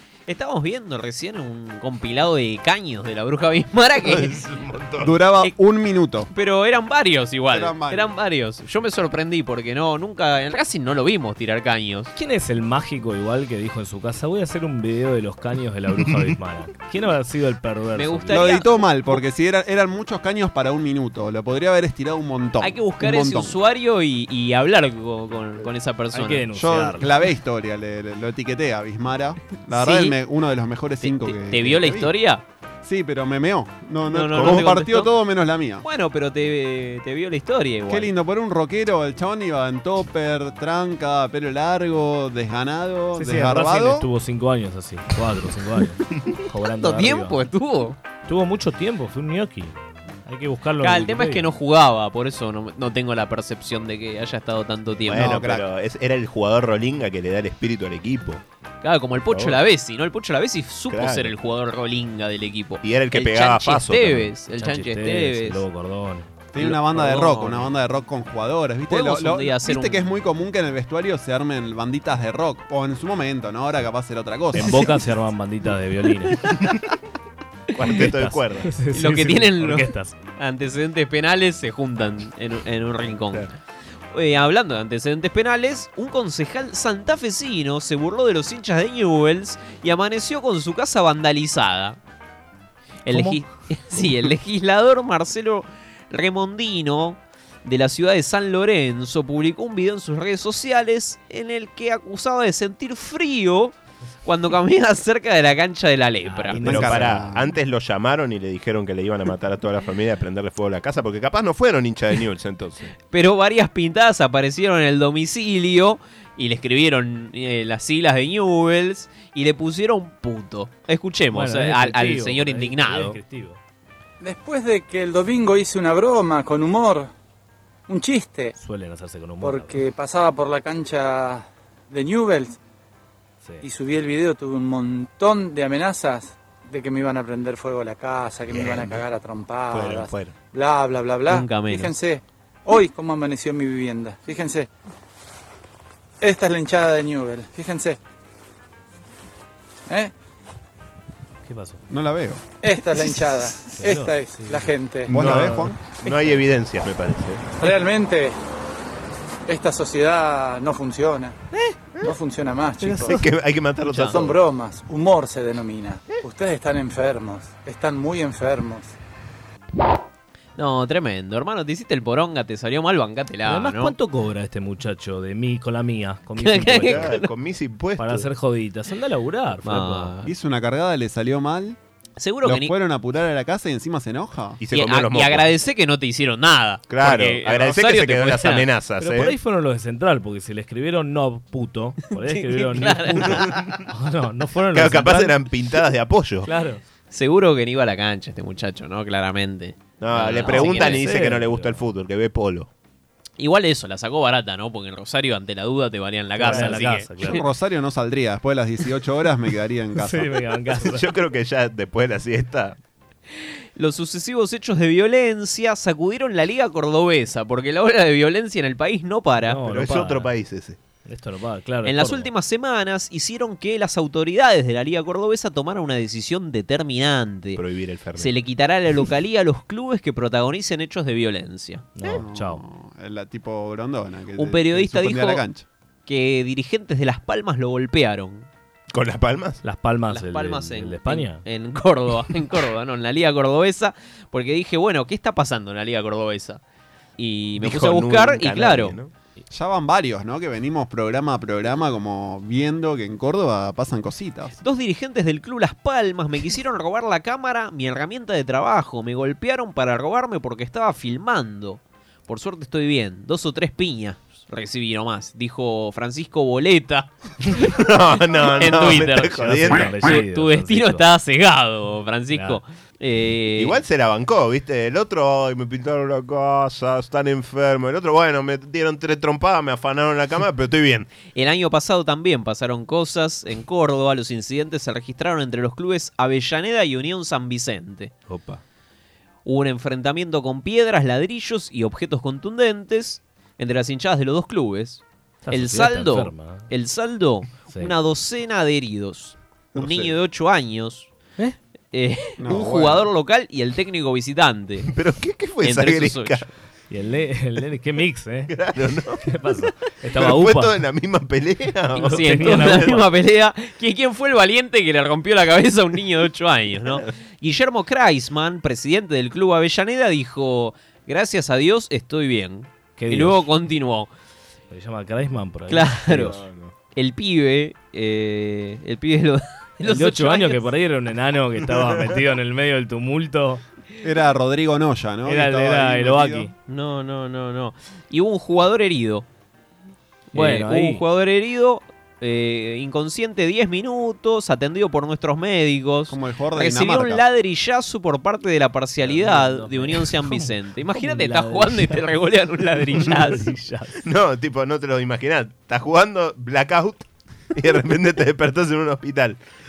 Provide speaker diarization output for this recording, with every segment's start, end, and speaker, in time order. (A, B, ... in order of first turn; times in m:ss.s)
0:00.3-0:04.4 A
0:04.0-0:05.1 B
0:05.0-0:06.3 C
0:06.3-0:12.1 A
0:07.5-0:08.1 C
0:12.1-0:18.6 D
0:17.9-0:19.2 A
0:18.3-0:23.5 C
0:22.6-0:26.4 A
0:26.1-0:27.2 D
0:26.5-0:32.1 C
0:29.7-0:30.2 A
0:31.0-0:32.4 A
0:32.8-0:35.8 C
0:34.1-0:35.1 A
0:35.8-0:38.1 A
0:37.9-0:44.1 C
0:43.1-0:47.4 D
0:46.8-0:48.0 A
0:48.2-0:51.5 D
0:50.8-0:55.4 A
0:55.0-0:58.4 B
0:55.1-0:55.6 C
0:58.8-1:05.6 A
0:59.3-0:59.6 B
1:00.9-1:01.3 B
1:02.8-1:04.3 B
1:04.5-1:06.5 D
1:06.5-1:15.0 C
1:06.6-1:07.7 A
1:08.9-1:10.0 A
1:14.5-1:16.5 D
1:17.7-1:18.7 B
1:17.9-1:20.2 D
1:18.9-1:23.5 A
1:24.1-1:32.0 A
1:33.0-1:46.9 A
1:33.1-1:33.4 D
1:46.3-1:47.2 D
1:46.5-1:47.5 C
1:46.6-1:52.9 B
1:53.1-2:03.2 A
2:01.3-2:03.6 D
2:04.2-2:07.1 E
2:07.9-2:08.5 E
2:08.6-2:09.8 D
2:09.4-2:12.6 E
2:13.6-2:24.7 E
2:18.5-2:19.0 B
2:19.7-2:20.3 B
2:21.3-2:22.0 A
2:26.2-2:28.0 E
2:31.4-2:31.8 D
2:31.9-2:32.4 C
2:32.6-2:35.1 E
2:33.0-2:35.8 D
2:35.1-2:35.8 C
2:36.0-2:37.5 B
2:37.6-2:38.4 E
2:39.4-2:41.4 E
2:41.5-2:42.0 B
2:42.0-2:43.2 E
2:42.8-2:44.4 B
2:42.8-2:43.2 D
2:43.8-2:44.2 A
2:44.1-2:48.9 E
2:50.6-2:53.9 A
2:53.4-2:57.2 D
2:56.4-2:57.3 A
2:56.7-2:58.3 B
2:58.0-3:00.1 D
2:59.6-3:00.3 A
3:00.2-3:01.8 C
3:02.2-3:02.7 A
3:02.4-3:04.6 C
3:04.6-3:05.5 B
3:04.7-3:08.7 A
3:06.9-3:09.3 B
3:09.0-3:15.4 D
3:12.1-3:13.6 A
3:13.2-3:13.8 B
3:14.7-3:16.5 B
3:16.4-3:16.8 D
3:17.1-3:21.0 A
3:20.0-3:22.7 B
3:20.3-3:21.8 D
3:23.4-3:27.4 A
3:26.4-3:27.4 D
3:27.2-3:30.4 C
3:29.9-3:31.1 D
3:30.8-3:32.8 B
3:33.8-3:39.6 A
3:39.4-3:40.3 D
3:39.6-3:40.8 B
3:41.0-3:42.3 D
3:41.8-3:47.6 A
3:47.5-3:48.3 B
3:48.2-3:51.9 A
3:51.9-3:52.6 D
3:52.0-3:55.6 C
3:54.4-3:55.4 A
3:56.0-3:58.5 A
3:58.9-3:59.6 B
3:59.6-4:01.4 D
4:00.1-4:06.6 A
4:07.2-4:09.0 A
4:07.6-4:09.1 B
4:09.5-4:14.5 C
4:14.6-4:27.7 A
4:27.6-4:29.9 B
4:28.5-4:33.8 A
4:29.3-4:31.0 D
4:32.3-4:32.6 D
4:33.6-4:41.1 B
4:41.3-4:48.1 A
4:48.3-4:48.6 B
4:49.4-5:01.1 A
4:55.4-4:56.7 D
4:57.7-4:57.9 D
4:59.8-5:00.1 C
5:01.9-5:04.9 A
5:02.4-5:03.1 C
5:04.9-5:06.4 B
5:05.6-5:06.4 A
5:06.9-5:08.5 D
5:08.5-5:09.2 B
5:09.2-5:10.8 D
5:10.1-5:13.0 B
5:11.9-5:24.1 A
5:12.0-5:13.0 D
5:23.0-5:23.5 D
5:24.7-5:26.3 D
5:25.7-5:26.4 A
5:26.1-5:26.7 B
5:26.9-5:30.7 A
5:29.8-5:33.6 D
5:34.0-5:36.5 C
5:35.2-5:36.5 D
5:36.7-5:39.3 A
5:40.3-5:53.6 A
5:40.3-5:41.0 D
5:46.1-5:47.2 C
5:49.0-5:54.0 D
5:54.0-5:59.4 B